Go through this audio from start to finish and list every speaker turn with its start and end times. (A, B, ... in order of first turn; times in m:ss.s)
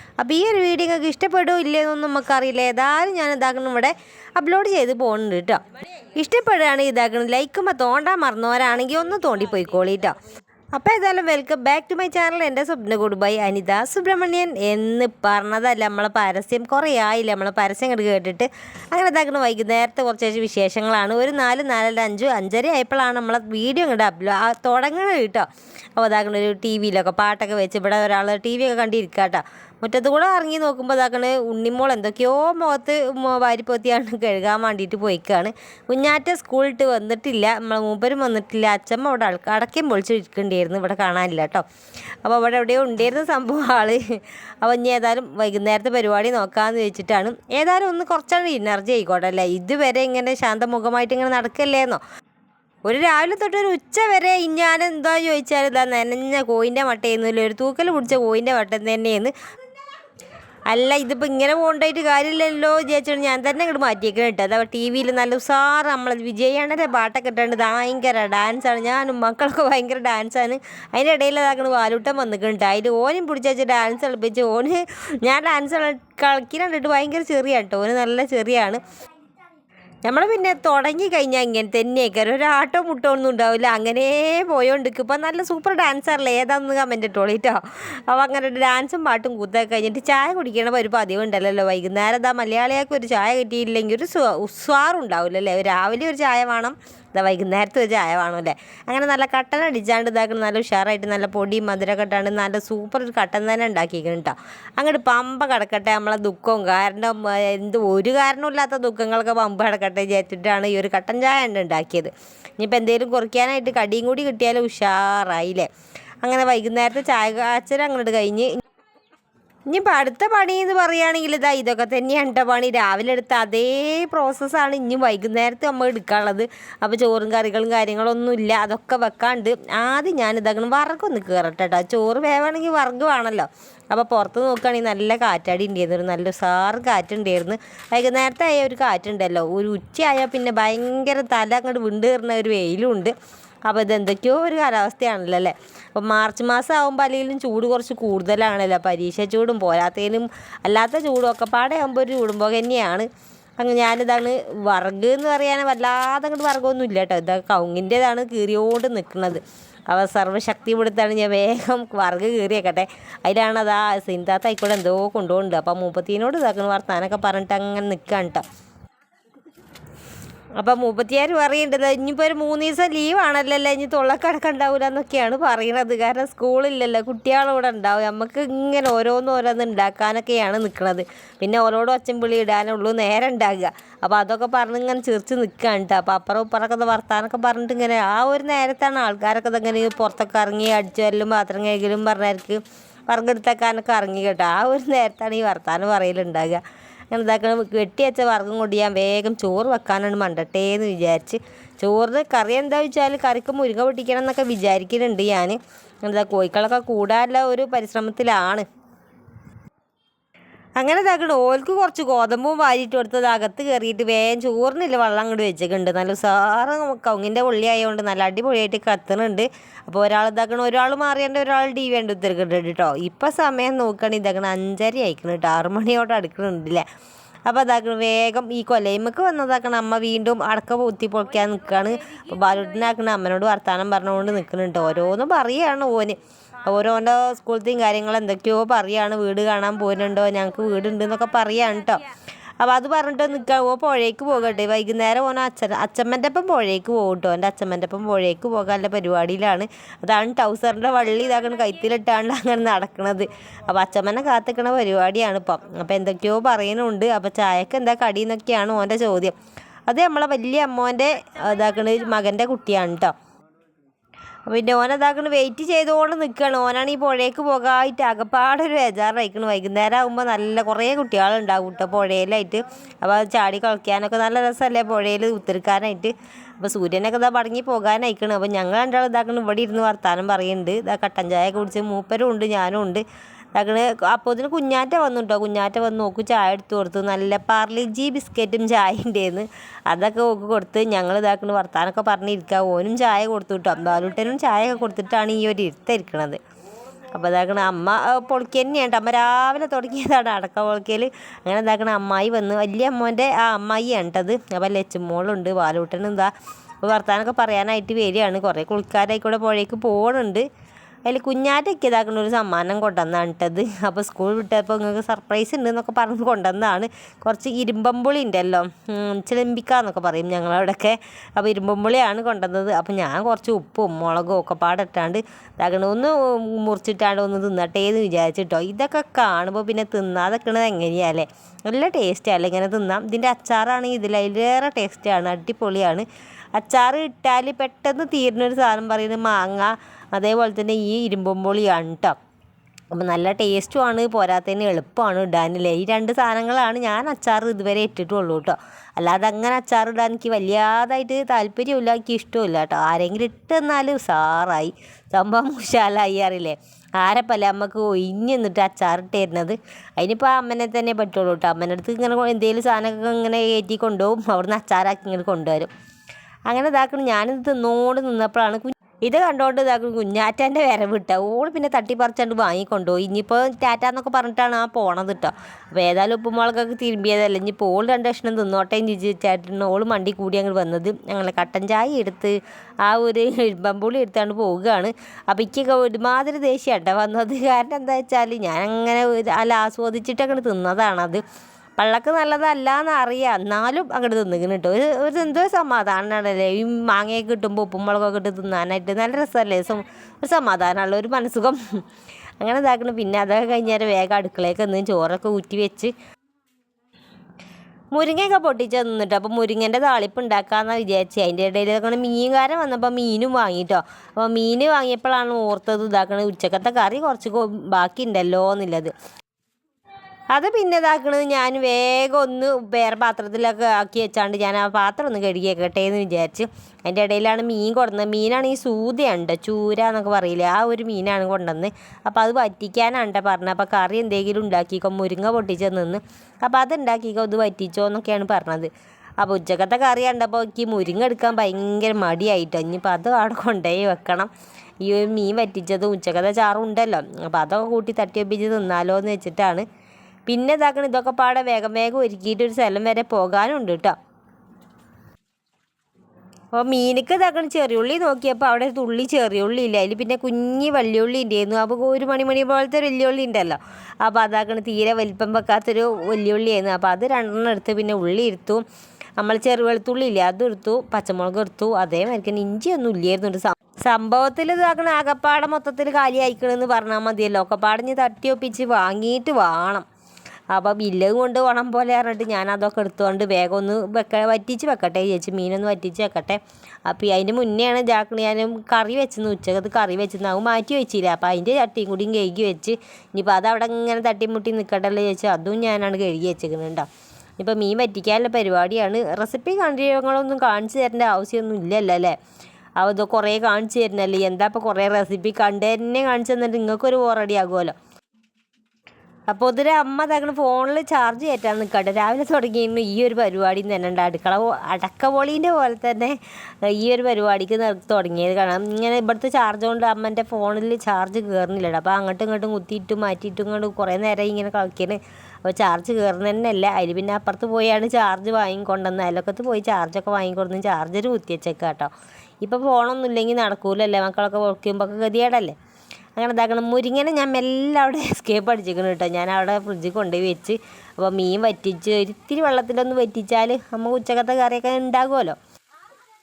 0:00.2-0:05.6 A
0:06.2-0:10.2 A
0:10.8-0:41.6 A
0:42.2-0:52.0 A
0:52.8-0:59.3 A
1:00.7-1:18.8 A
1:20.0-1:55.7 A
1:56.2-1:58.5 A
1:59.7-2:23.1 A
2:23.7-2:33.1 A
2:33.6-2:48.4 A
2:50.6-3:28.6 A
3:30.8-3:46.8 A
3:47.5-4:02.1 A
4:02.6-4:19.3 A
4:19.9-4:23.1 A
4:24.5-4:43.0 A
4:43.5-4:56.4 A
4:57.1-5:06.3 A
5:06.8-5:10.4 A
5:11.1-5:36.0 A
5:36.6-5:42.1 A
5:42.9-6:05.7 A
6:06.5-6:22.3 A
6:22.9-6:31.2 A
6:31.8-6:41.8 A
6:42.4-6:45.9 A
6:47.9-6:58.9 A
7:00.3-7:18.7 A
7:19.2-7:24.3 A
7:24.8-7:29.6 A
7:30.3-7:34.0 A
7:36.5-7:48.6 A
7:49.2-7:59.8 A
8:00.5-8:16.9 A
8:17.4-8:22.2 A
8:22.8-8:27.7 A
8:29.3-8:51.9 A
8:52.4-8:55.6 A
8:56.2-9:05.4 A